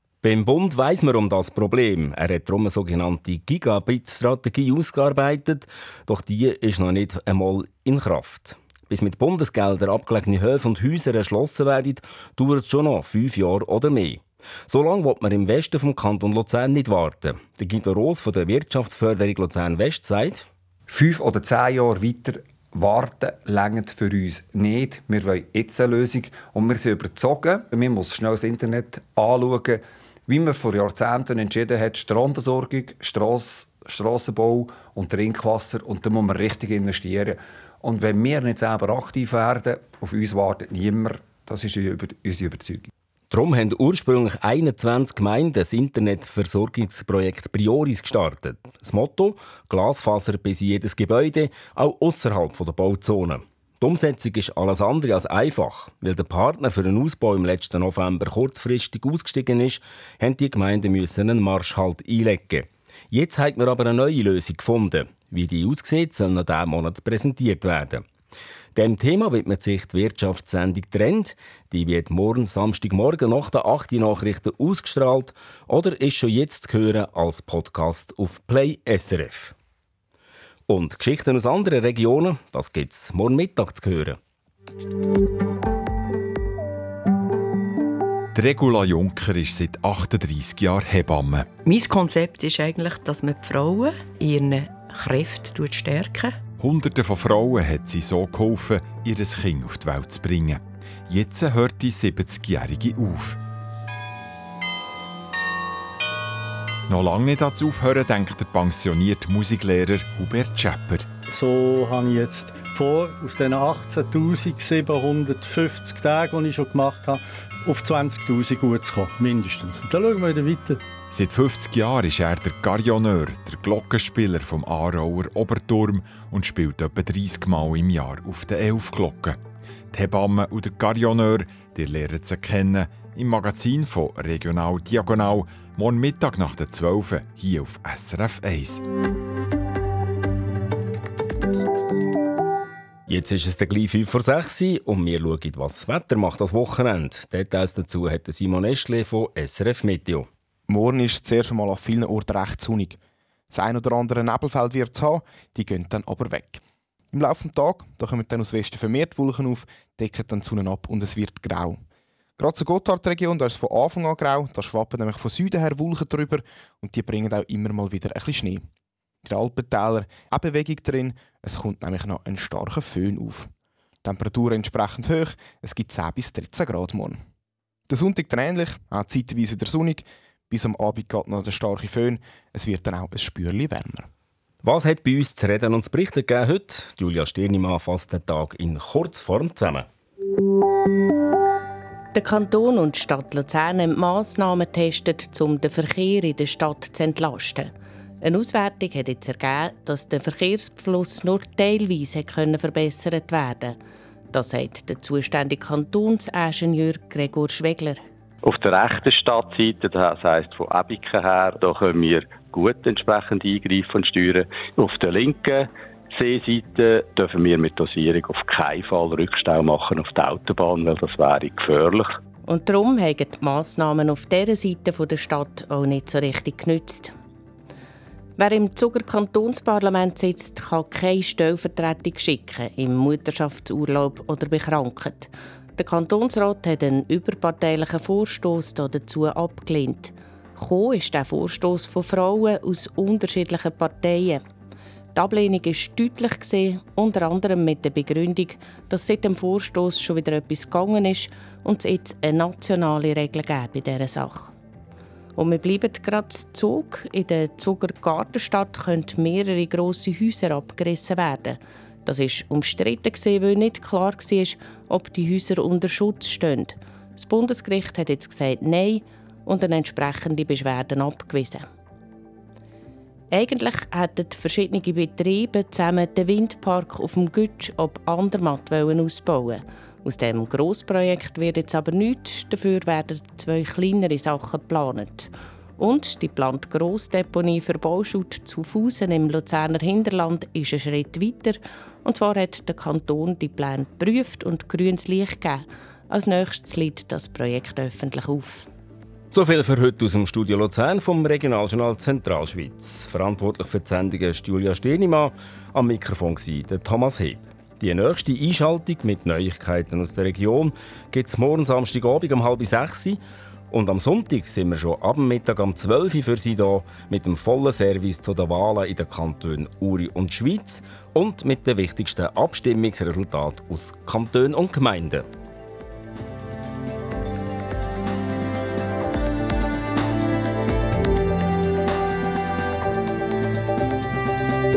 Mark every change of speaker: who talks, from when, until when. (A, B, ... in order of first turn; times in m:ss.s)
0:00.2-0:20.5 A
0:20.9-0:42.9 B
0:43.3-1:08.0 A
1:08.7-1:19.5 A
1:20.7-1:24.2 A
1:28.3-1:31.5 C
1:31.6-1:36.4 D
1:36.6-1:43.4 C
1:46.9-1:51.1 C
1:51.3-2:00.8 E
2:01.1-2:09.4 C
2:09.9-2:18.8 C
2:23.1-2:30.3 A
2:30.7-2:33.0 F
2:33.5-2:41.8 F
2:42.4-2:48.7 F
2:49.2-2:53.5 F
2:54.0-2:57.2 F
2:57.9-3:04.1 F
3:04.6-3:09.9 A
3:12.1-3:17.7 G
3:18.2-3:23.8 G
3:24.3-3:28.0 G
3:28.4-3:42.2 H
3:42.5-3:47.1 G
3:48.4-4:04.4 G
4:05.2-4:14.5 G
4:15.4-4:31.7 G
4:33.3-4:58.7 G
4:59.3-5:13.2 A
5:13.7-5:25.2 A